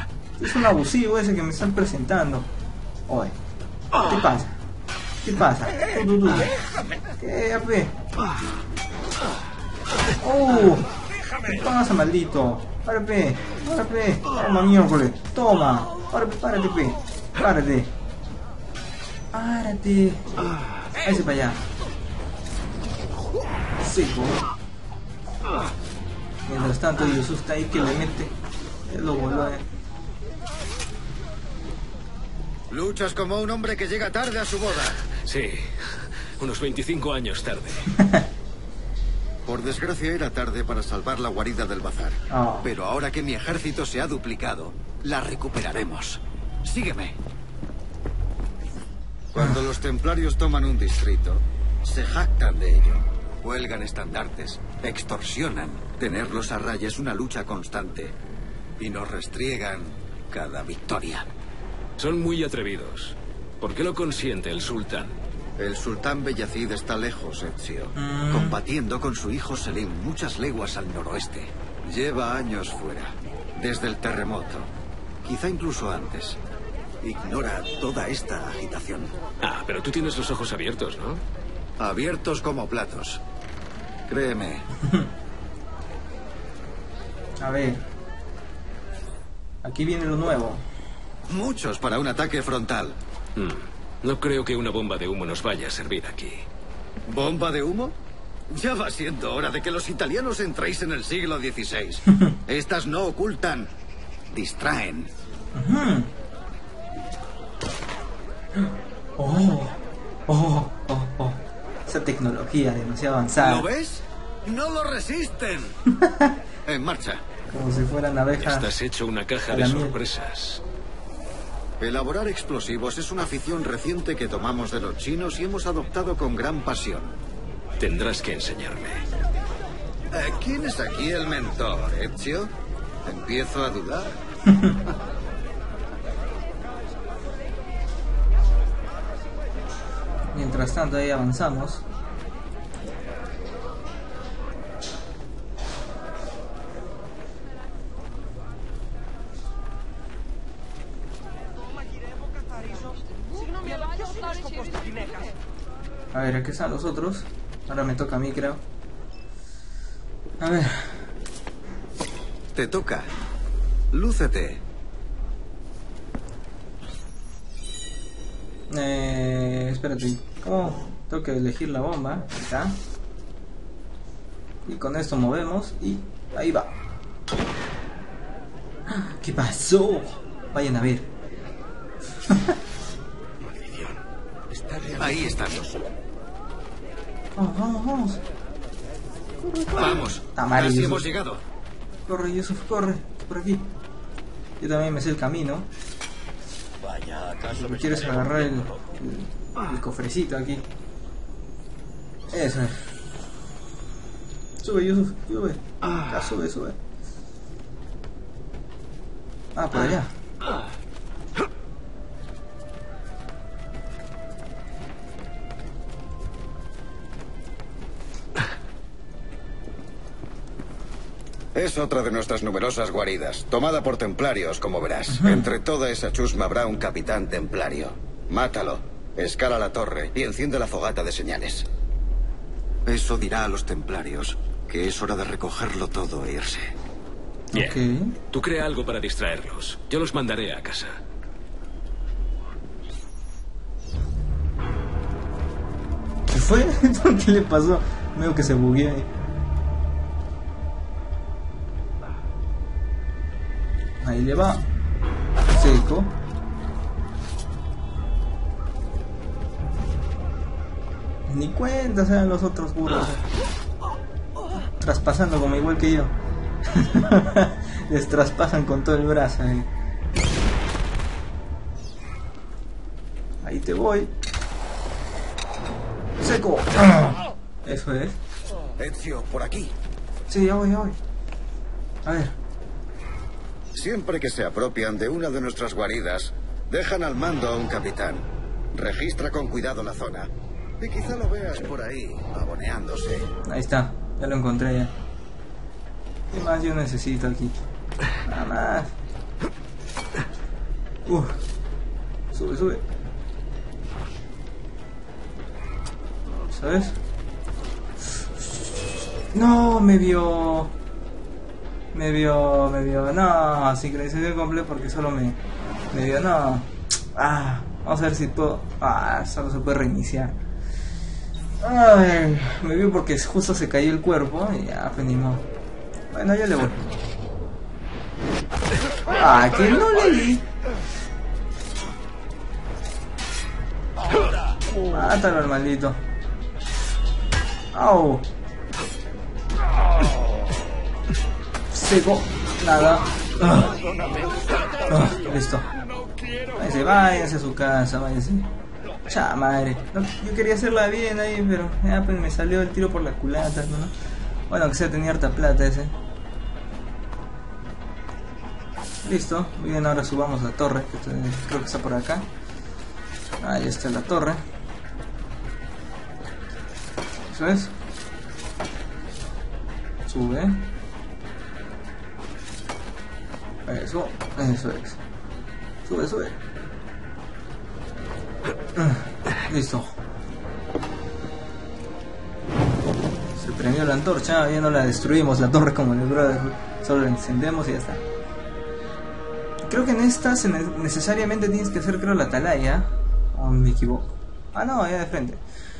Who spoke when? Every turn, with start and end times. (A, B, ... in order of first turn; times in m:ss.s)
0:00.4-0:02.5 A
0:03.1-0:03.3 A
0:04.0-0:04.6 A
0:05.2-0:06.5 A
0:07.2-0:07.9 A
0:10.2-0:10.9 A
0:11.4-0:17.9 A
0:19.3-0:20.3 A
0:21.0-0:21.6 A
0:23.8-0:24.4 A
0:26.5-0:28.3 A
0:28.9-0:29.6 A
0:32.7-0:35.0 B
0:35.1-0:38.0 C
0:38.0-0:38.2 A
0:39.4-0:47.2 B
0:42.3-0:42.7 A
0:49.3-0:58.1 B
0:58.8-1:01.3 B
1:02.0-1:05.2 C
1:05.6-1:14.7 B
1:07.9-1:08.6 A
1:15.2-1:16.4 B
1:17.0-1:19.1 B
1:19.4-1:21.2 C
1:21.8-1:23.2 B
1:24.1-1:24.7 B
1:27.4-1:27.8 A
1:29.6-1:30.6 A
1:31.3-1:33.0 B
1:33.4-1:36.4 C
1:37.0-1:38.0 B
1:38.5-1:43.7 B
1:42.1-1:42.3 A
1:44.3-1:45.1 B
1:45.5-1:46.1 A
1:48.5-1:53.6 A
1:53.3-1:55.8 B
1:55.9-1:56.3 A
1:56.6-1:57.2 B
1:57.5-1:58.7 A
1:58.4-2:00.6 C
1:59.5-2:00.0 A
2:01.8-2:07.2 B
2:07.8-2:09.0 C
2:10.1-2:12.5 B
2:13.0-2:14.2 B
2:14.5-2:14.8 A
2:20.3-2:21.8 A
2:36.1-2:38.6 A
2:40.4-2:41.1 A
2:42.5-2:43.1 B
2:43.9-2:44.6 B
2:48.7-2:52.8 A
2:54.6-2:56.8 A
2:58.9-3:01.1 A
3:02.3-3:02.6 A
3:04.9-3:05.8 B
3:07.4-3:08.2 A
3:09.4-3:11.1 A
3:09.7-3:11.4 B
3:12.1-3:13.7 A
3:14.6-3:15.7 A
3:16.8-3:18.7 B
3:17.5-3:20.6 A
3:22.3-3:22.9 A
3:24.6-3:26.8 A
3:29.5-3:30.1 A
3:41.5-3:51.6 B
3:45.1-3:45.5 A
3:52.8-3:56.7 B
3:57.5-3:58.2 A
3:57.5-3:57.8 C
3:58.3-4:01.0 C
4:06.3-4:09.1 A
4:14.0-4:14.6 A
4:15.5-4:16.1 A
4:21.3-4:23.2 A
4:24.8-4:26.1 A
4:26.7-4:29.7 A
4:33.4-4:34.1 A
4:36.2-4:38.2 A
4:38.8-4:39.7 B
4:40.3-4:41.0 A
4:42.0-4:42.3 A
4:43.7-4:53.3 B
4:53.4-4:54.9 A
4:56.3-4:57.6 A
4:58.2-4:58.9 A
5:01.0-5:01.4 A
5:02.3-5:02.8 A
5:06.3-5:07.0 A
5:09.3-5:10.7 A
5:11.9-5:15.4 A
5:15.9-5:20.4 A
5:21.6-5:25.4 A
5:26.1-5:26.9 A
5:29.1-5:30.4 A
5:34.9-5:36.0 A
5:37.7-5:38.3 A
5:41.7-5:43.8 A
5:44.9-5:45.7 A
5:46.5-5:48.5 A
5:49.0-5:53.9 A
5:54.5-5:55.9 A
5:59.0-6:02.3 A
6:03.4-6:04.4 A
6:07.3-6:07.7 A
6:10.0-6:10.6 A
6:13.6-6:15.0 A
6:15.8-6:16.4 A
6:18.7-6:19.9 A
6:23.3-6:28.0 A
6:29.7-6:35.4 A